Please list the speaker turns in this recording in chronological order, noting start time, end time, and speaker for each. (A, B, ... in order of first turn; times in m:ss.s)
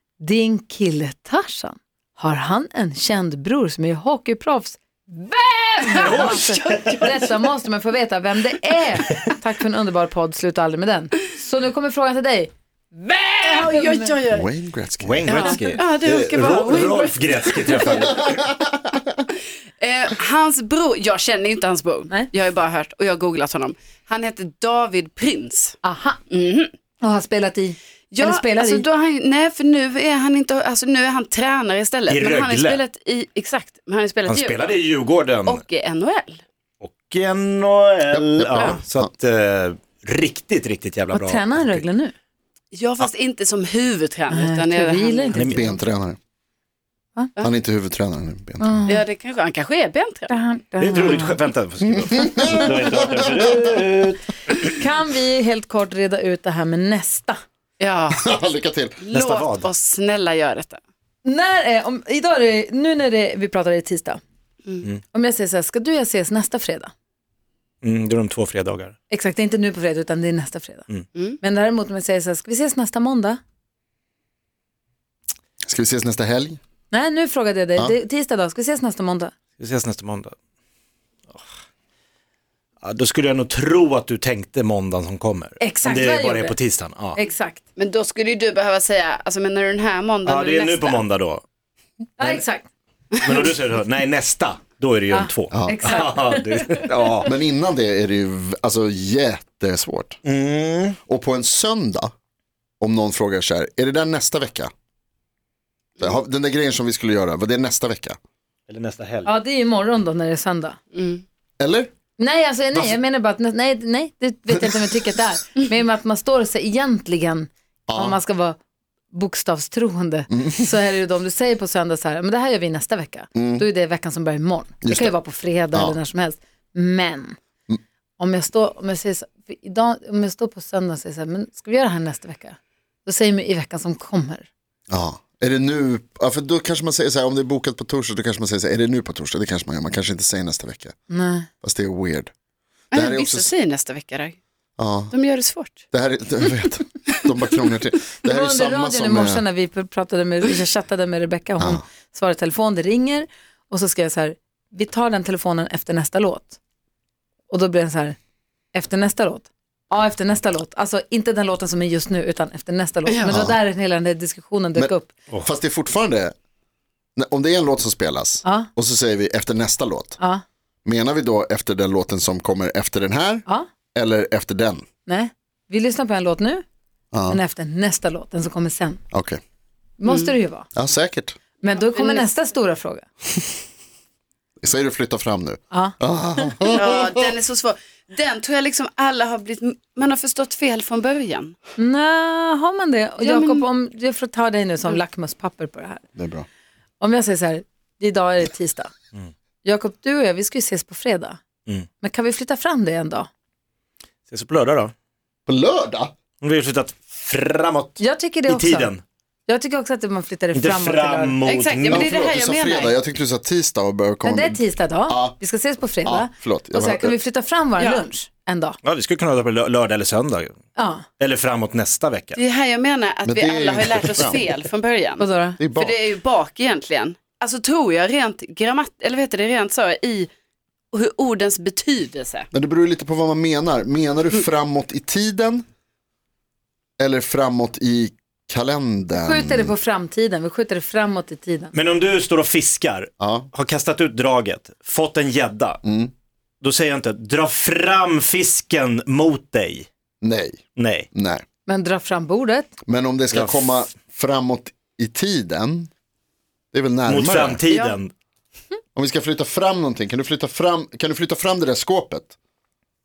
0:00.2-0:14.2 A
0:05.8-0:07.5 B
0:06.0-0:07.1 C
0:13.3-0:14.5 B
0:14.3-0:15.4 D
0:15.0-0:18.4 C
0:15.3-0:18.1 B
0:18.3-0:19.0 D
0:19.3-0:25.8 B
0:25.8-0:26.2 A
0:26.3-0:26.7 B
0:27.0-0:28.8 A
0:28.1-0:34.8 B
0:32.1-0:32.8 C
0:34.2-0:35.6 C
0:35.5-0:36.4 B
0:36.8-0:41.8 C
0:38.1-0:39.1 D
0:41.1-0:42.1 A
0:42.7-0:45.5 B
0:44.3-0:45.7 A
0:45.3-0:45.7 C
0:45.4-0:46.2 D
0:47.4-0:48.9 D
0:48.6-0:49.1 A
0:48.9-0:50.3 B
0:50.3-0:51.4 A
0:50.8-0:54.5 C
0:52.0-0:53.6 D
0:54.5-0:57.4 A
0:57.8-0:58.3 B
0:58.1-0:59.0 D
0:59.0-1:00.8 B
0:59.1-0:59.7 C
1:01.2-1:04.2 A
1:05.1-1:06.9 A
1:07.8-1:09.0 C
1:09.1-1:10.9 A
1:11.4-1:13.4 A
1:15.7-1:16.6 D
1:16.9-1:19.3 A
1:19.6-1:20.3 C
1:22.8-1:27.2 C
1:25.6-1:26.6 A
1:27.2-1:27.6 A
1:27.8-1:31.0 B
1:30.2-1:31.4 C
1:32.2-1:32.7 A
1:33.1-1:37.3 C
1:35.1-1:37.1 A
1:35.5-1:36.0 D
1:37.2-1:40.2 D
1:40.2-1:41.0 C
1:41.1-1:42.1 D
1:42.8-1:44.7 D
1:46.0-1:48.2 D
1:48.7-1:49.3 C
1:49.2-1:50.8 A
1:50.9-1:51.2 B
1:51.6-1:51.9 D
1:52.2-1:58.6 A
1:54.5-1:54.8 D
1:57.9-1:58.2 D
1:59.1-2:07.4 A
2:00.3-2:00.7 D
2:03.4-2:03.7 D
2:04.8-2:05.2 D
2:05.7-2:06.0 D
2:08.2-2:14.5 A
2:14.9-2:21.0 D
2:21.1-2:21.5 A
2:21.6-2:22.3 D
2:22.9-2:24.4 B
2:22.9-2:23.5 D
2:24.8-2:25.2 D
2:25.1-2:25.8 B
2:25.9-2:29.4 D
2:28.2-2:36.6 A
2:37.5-2:38.2 A
2:38.7-2:45.1 A
2:43.1-2:43.3 B
2:43.2-2:43.6 D
2:44.8-2:46.3 D
2:47.2-2:50.2 D
2:48.4-2:48.7 A
2:50.8-2:54.8 D
2:55.1-2:56.6 A
2:57.1-2:57.4 D
2:57.3-2:59.0 A
2:59.1-2:59.4 D
3:00.0-3:00.7 A
3:00.8-3:01.4 D
3:01.6-3:03.0 A
3:01.9-3:02.3 B
3:04.6-3:07.3 D
3:05.7-3:06.5 A
3:06.7-3:11.6 B
3:11.8-3:16.0 A
3:13.2-3:13.7 B
3:16.2-3:16.5 D
3:17.0-3:18.9 A
3:19.6-3:21.4 A
3:22.0-3:23.3 A
3:24.3-3:24.9 C
3:25.5-3:26.1 D
3:26.4-3:29.0 C
3:28.0-3:28.9 A
3:29.5-3:31.4 A
3:30.6-3:32.2 C
3:31.4-3:33.0 B
3:31.9-3:35.4 D
3:34.2-3:38.8 A
3:36.0-3:37.2 D
3:37.8-3:38.1 B
3:38.8-3:40.6 C
3:40.8-3:41.0 A
3:41.2-3:42.4 C
3:42.4-3:50.3 B
3:43.2-3:44.5 D
3:45.2-3:45.6 A
3:45.6-3:46.0 D
3:50.9-3:52.5 B
3:52.5-3:55.6 D
3:57.0-3:59.7 D
3:59.1-4:01.7 A
4:01.7-4:05.8 C
4:03.2-4:03.5 D
4:05.8-4:06.1 D
4:06.6-4:09.9 C
4:10.2-4:11.4 D
4:10.8-4:11.1 C
4:11.7-4:12.7 A
4:12.9-4:15.9 D
4:13.3-4:13.9 C
4:16.7-4:17.6 D
4:17.1-4:18.1 C
4:17.7-4:18.0 B
4:19.0-4:22.3 D